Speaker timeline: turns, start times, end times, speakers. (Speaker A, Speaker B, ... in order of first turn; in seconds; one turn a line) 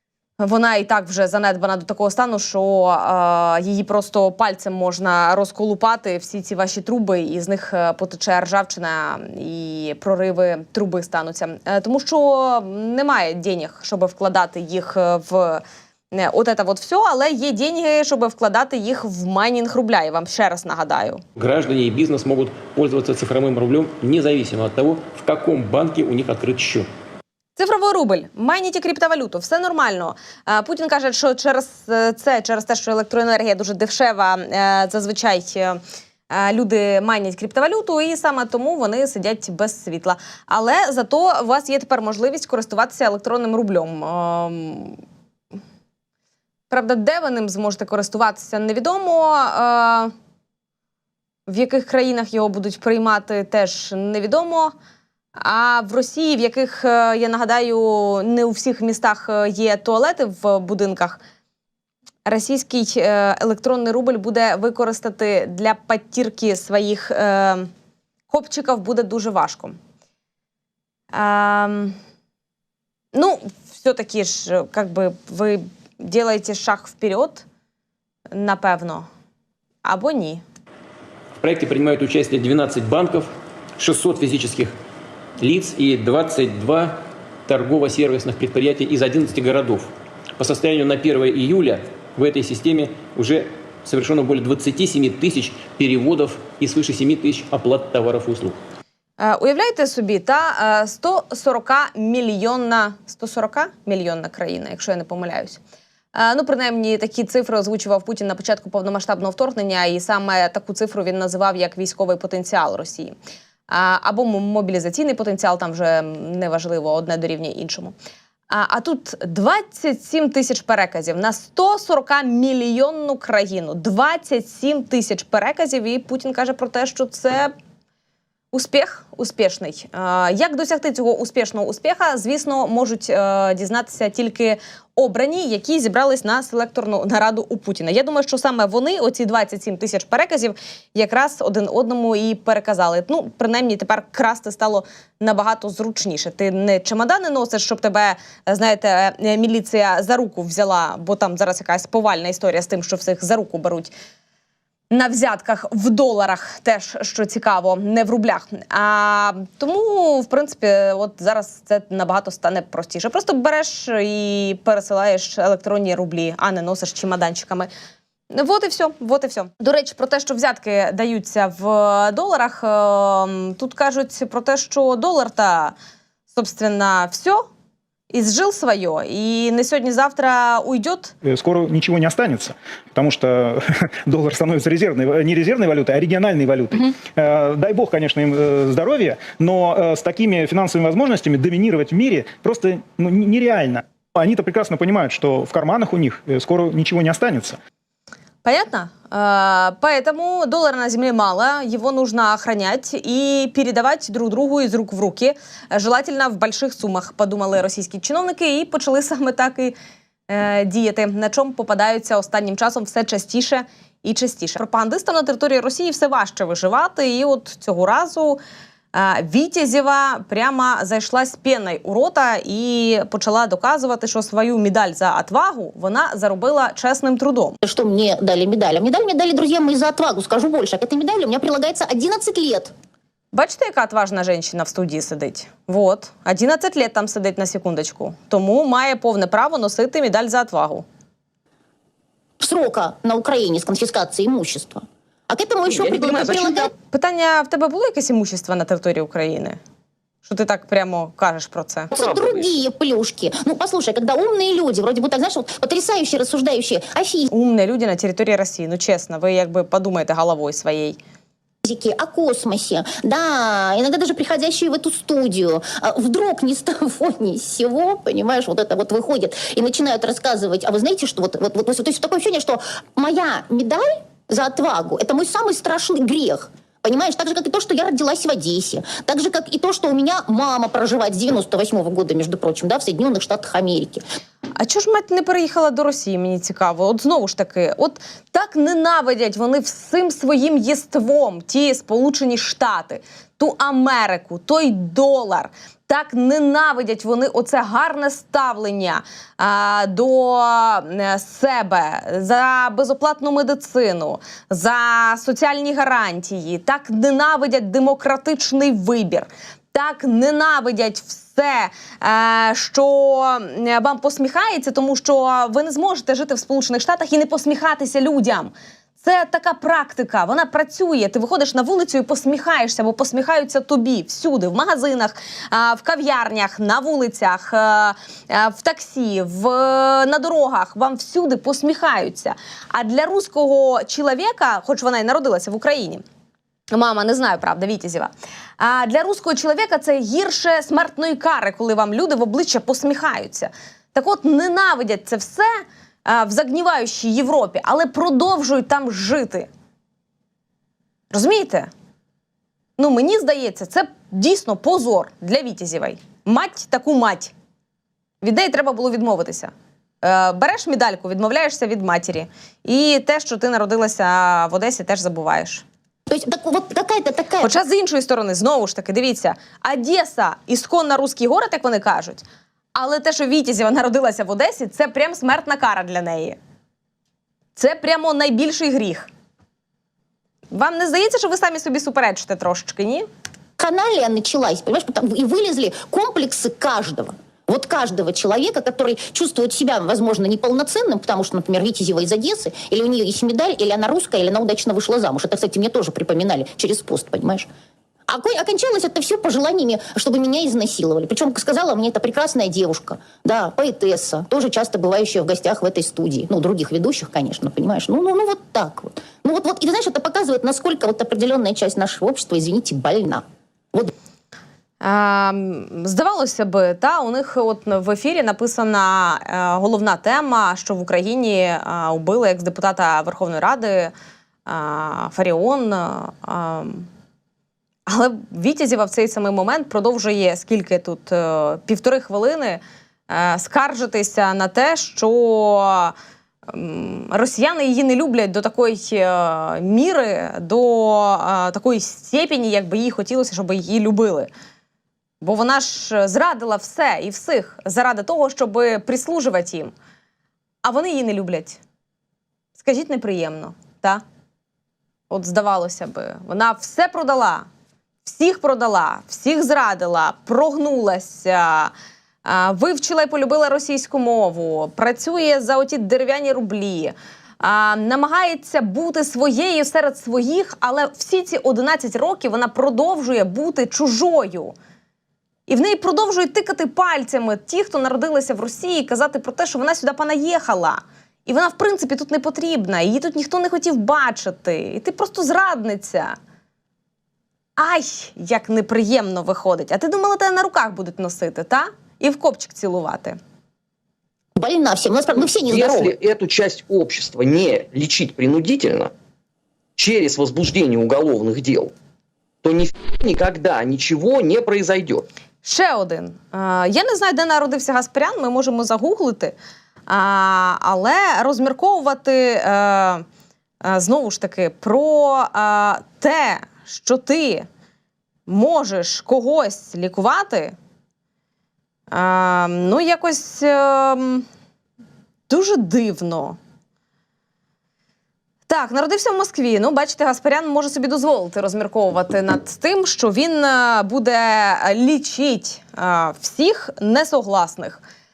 Speaker A: 0.4-21.2
Speaker B: 21.4-26.9
Speaker A: 27.6-45.0
Speaker A: 46.7-50.1
Speaker A: 51.5-54.7
Speaker A: 55.4-61.2
Speaker A: 62.3-67.7
Speaker A: 68.3-69.8
Speaker A: 71.1-72.0
Speaker A: 73.1-77.4
Speaker A: 78.3-79.1
Speaker A: 79.8-80.4
Speaker B: 81.4-84.7
Speaker B: 85.4-98.6
Speaker A: 99.2-105.6
Speaker A: 106.2-113.1
Speaker A: 113.7-118.0
Speaker A: 118.5-127.5
Speaker A: 128.5-153.9
Speaker A: 154.9-167.7
Speaker A: 168.3-175.8
Speaker A: 176.3-177.5
Speaker A: 178.1-181.1
Speaker C: 181.2-197.6
Speaker A: 198.4-209.8
Speaker A: 210.3-218.4
Speaker A: 218.9-227.6
Speaker D: 227.6-232.7
Speaker A: 233.3-240.8
Speaker D: 242.4-246.7
Speaker E: 245.7-246.7
Speaker A: 246.9-249.6
Speaker A: 250.2-251.9
Speaker E: 251.9-252.6
Speaker D: 251.9-257.3
Speaker A: 257.3-261.0
Speaker D: 261.6-284.0
Speaker A: 284.6-336.0
Speaker A: 336.7-349.5
Speaker A: 351.1-351.7
Speaker A: 352.8-357.3
Speaker A: 358.2-365.6
Speaker D: 366.1-367.5
Speaker A: 367.4-372.2
Speaker A: 372.8-376.4
Speaker A: 377.6-379.1
Speaker A: 380.5-383.1
Speaker D: 383.6-397.5
Speaker D: 398.1-413.9
Speaker A: 414.8-423.9
Speaker A: 424.5-426.9
Speaker A: 427.9-435.9
Speaker A: 436.5-444.3
Speaker A: 445.2-449.7
Speaker A: 450.6-451.6
Speaker A: 452.6-454.0
Speaker A: 455.1-457.5
Speaker A: 458.1-461.7
Speaker A: 462.2-474.5
Speaker A: 475.5-486.2
Speaker A: 487.6-493.2
Speaker D: 494.4-496.0
Speaker E: 495.2-498.9
Speaker E: 499.8-501.7
Speaker E: 502.4-505.1
Speaker A: 505.4-509.4
Speaker A: 509.9-513.0
Speaker A: 513.6-517.5
Speaker A: 518.3-520.5
Speaker A: 521.9-524.3
Speaker A: 525.3-526.4
Speaker A: 528.5-537.8